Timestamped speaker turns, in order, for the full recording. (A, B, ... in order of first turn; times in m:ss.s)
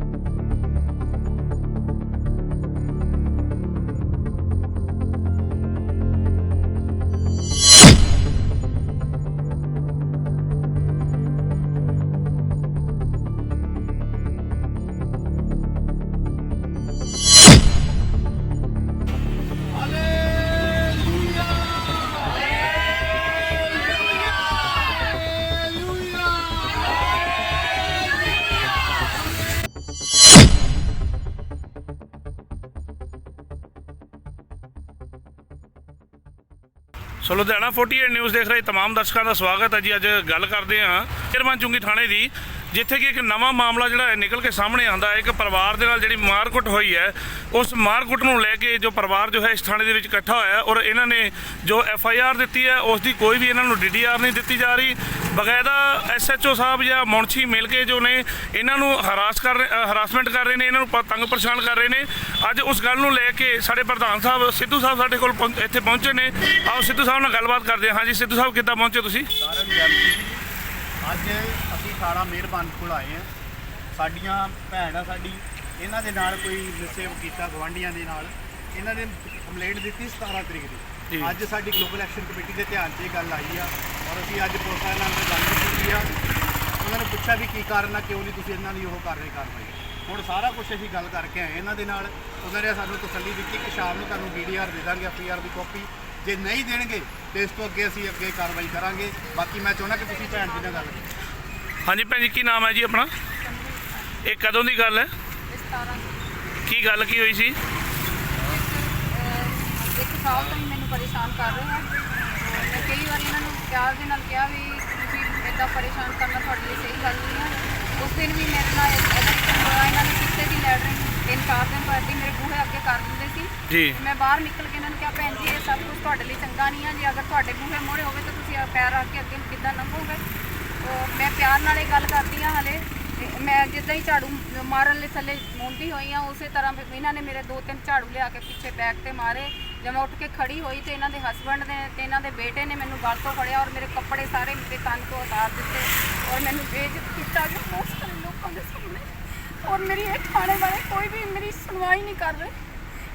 0:37.2-1:09.3 A
1:09.4-1:10.4 B
1:11.0-1:13.3 B
1:13.9-1:26.1 B
1:21.1-1:21.4 A
1:26.8-1:41.0 B
1:40.0-1:41.1 C
1:41.8-1:43.1 A
1:43.4-1:44.3 C
1:44.2-1:45.1 A
1:45.5-1:46.2 C
1:46.6-1:47.6 A
1:48.4-2:10.2 C
2:03.7-2:04.0 A
2:10.8-2:32.5 C